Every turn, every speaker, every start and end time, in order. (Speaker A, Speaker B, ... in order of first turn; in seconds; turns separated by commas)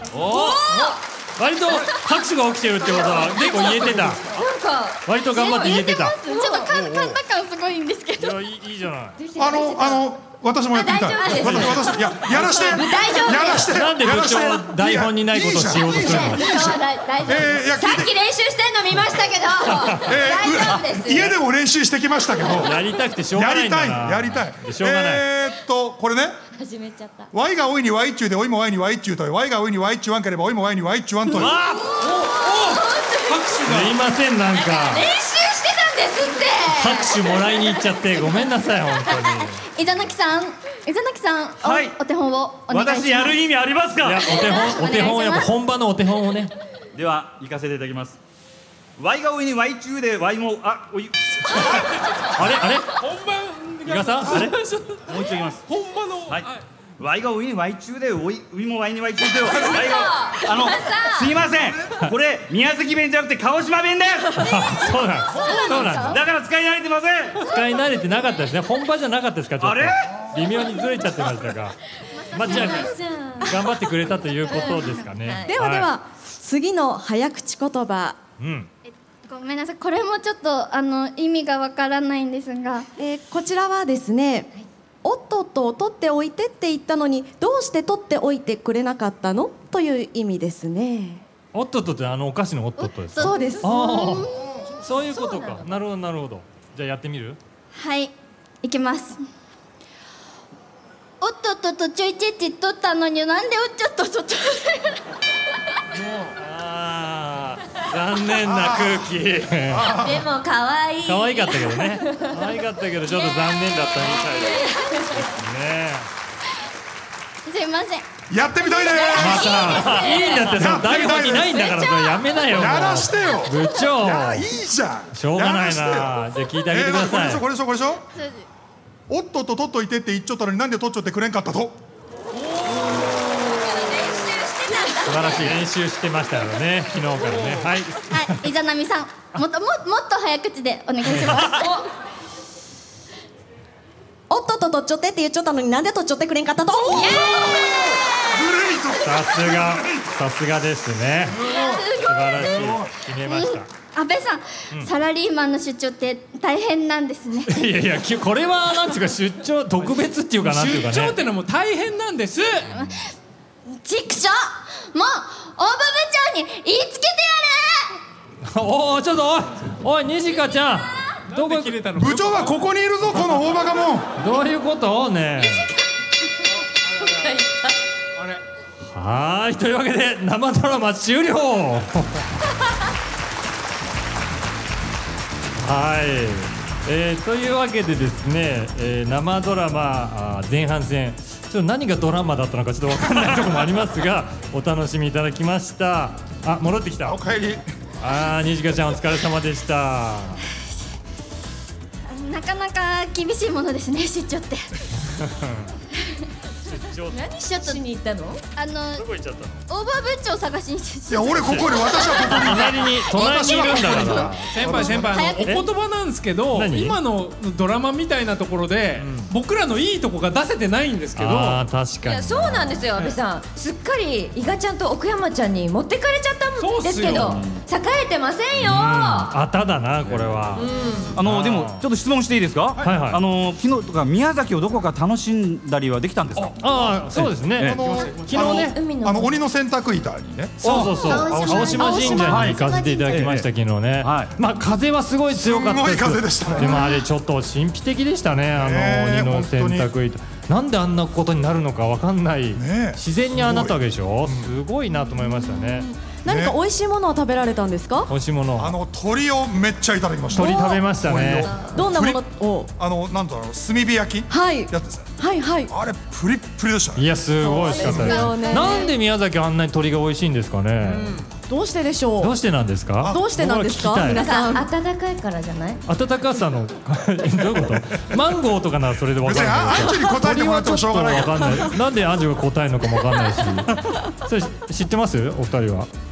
Speaker A: 0.2-0.6, Speaker B: 0.2-4.3, Speaker C: 0.4-0.9, Speaker C: 3.0-5.7, Speaker B: 5.0-6.2, Speaker D: 5.2-8.4, Speaker C: 6.3-6.7, Speaker E: 6.7-7.2, Speaker B: 8.2-9.2, Speaker C: 9.2-10.1, Speaker E: 9.4-18.1, Speaker C: 10.7-13.7, Speaker B: 13.6-16.4, Speaker C: 15.9-21.4, Speaker E: 20.0-22.8, Speaker B: 22.6-25.2, Speaker E: 23.3-26.4, Speaker C: 26.6-27.3, Speaker E: 27.3-31.6, Speaker B: 31.3-32.0, Speaker C: 31.9-33.6, Speaker F: 32.0-34.0, Speaker B: 33.6-35.1, Speaker C: 34.5-37.4, Speaker B: 36.7-39.6, Speaker D: 39.7-43.4, Speaker A: 41.6-42.0, Speaker A: 42.7-44.3, Speaker B: 44.0-46.5, Speaker D: 44.3-45.5, Speaker A: 46.9-48.2, Speaker A: 49.0-51.8, Speaker B: 52.3-53.0, Speaker F: 52.9-56.6, Speaker B: 53.9-54.5, Speaker A: 55.0-55.6, Speaker A: 56.3-64.6, Speaker C: 59.4-61.4, Speaker B: 64.4-66.2, Speaker C: 65.3-65.9, Speaker A: 65.6-67.4, Speaker D: 65.6-65.8, Speaker B: 67.4-71.8, Speaker A: 69.6-70.3, Speaker D: 72.2-73.0, Speaker B: 72.3-75.9, Speaker C: 72.4-73.6, Speaker C: 75.2-75.5, Speaker G: 75.5-78.2, Speaker B: 78.4-78.7, Speaker D: 78.9-82.9, Speaker G: 83.0-84.5, Speaker G: 85.0-91.2, Speaker B: 91.5-97.4, Speaker D: 92.8-94.5, Speaker G: 93.2-93.6, Speaker C: 95.1-95.6, Speaker D: 97.7-99.2, Speaker D: 101.2-105.0, Speaker B: 106.4-109.9, Speaker E: 108.4-110.3, Speaker C: 110.0-112.4, Speaker B: 111.0-116.1, Speaker C: 114.1-115.2, Speaker D: 117.5-118.0, Speaker E: 118.3-119.8, Speaker D: 118.8-120.3, Speaker C: 119.0-120.4, Speaker B: 119.2-124.5, Speaker E: 120.5-121.6, Speaker E: 122.5-128.0, Speaker B: 125.1-127.4, Speaker D: 128.2-128.4, Speaker E: 129.1-131.8, Speaker C: 132.6-135.6, Speaker B: 135.0-138.4, Speaker F: 137.2-137.6, Speaker D: 138.1-141.8, Speaker B: 141.0-141.6, Speaker C: 141.4-141.9, Speaker G: 144.3-147.2, Speaker C: 146.9-148.2, Speaker E: 147.0-150.0, Speaker B: 149.0-153.7, Speaker E: 151.4-152.9, Speaker C: 151.5-152.1, Speaker D: 153.2-157.5, Speaker B: 157.5-161.2, Speaker F: 160.4-162.7, Speaker D: 162.7-163.1, Speaker D: 163.7-168.0, Speaker B: 168.4-171.8, Speaker F: 171.3-172.6, Speaker E: 171.9-174.1, Speaker B: 174.2-175.7, Speaker F: 177.0-177.4, Speaker C: 177.1-177.5, Speaker F: 178.2-178.4, Speaker B: 178.9-182.2, Speaker B: 185.6-197.2, Speaker E: 197.0-197.6, Speaker B: 198.0-200.4, Speaker D: 202.1-204.7, Speaker B: 205.1-205.8, Speaker B: 206.6-207.3, Speaker C: 207.1-208.4, Speaker D: 207.5-207.8, Speaker D: 208.6-209.1, Speaker B: 209.0-209.6, Speaker D: 209.7-215.6, Speaker E: 211.1-215.3, Speaker B: 211.4-214.8, Speaker F: 214.5-221.6, Speaker B: 216.5-217.0, Speaker B: 219.0-219.3, Speaker B: 221.2-222.9, Speaker C: 222.0-229.3, Speaker F: 226.6-227.4, Speaker A: 227.1-227.6, Speaker B: 228.6-231.8, Speaker A: 230.1-230.4, Speaker F: 230.7-231.1, Speaker A: 231.2-237.9, Speaker B: 232.8-233.2, Speaker B: 236.4-238.8, Speaker E: 237.6-242.4, Speaker C: 238.3-239.3, Speaker B: 240.6-255.9, Speaker A: 240.6-241.0, Speaker D: 241.0-243.2, Speaker A: 242.1-242.6, Speaker A: 243.1-243.5, Speaker A: 244.0-244.3, Speaker E: 245.3-246.9, Speaker E: 248.5-249.9, Speaker E: 252.5-254.5, Speaker G: 255.7-258.1, Speaker E: 256.2-256.6, Speaker B: 258.1-258.8, Speaker E: 258.6-262.2, Speaker B: 260.3-261.5, Speaker G: 260.4-260.8, Speaker G: 261.7-262.7, Speaker E: 262.8-265.1, Speaker G: 264.3-265.7, Speaker E: 265.7-267.1, Speaker B: 266.9-271.2, Speaker G: 267.4-268.9, Speaker D: 267.7-268.9, Speaker E: 267.8-268.2, Speaker G: 271.5-272.4, Speaker B: 272.2-274.2, Speaker E: 273.0-273.3, Speaker G: 273.0-274.6, Speaker C: 274.1-275.8, Speaker B: 275.9-285.9, Speaker E: 277.5-278.1, Speaker E: 279.2-281.8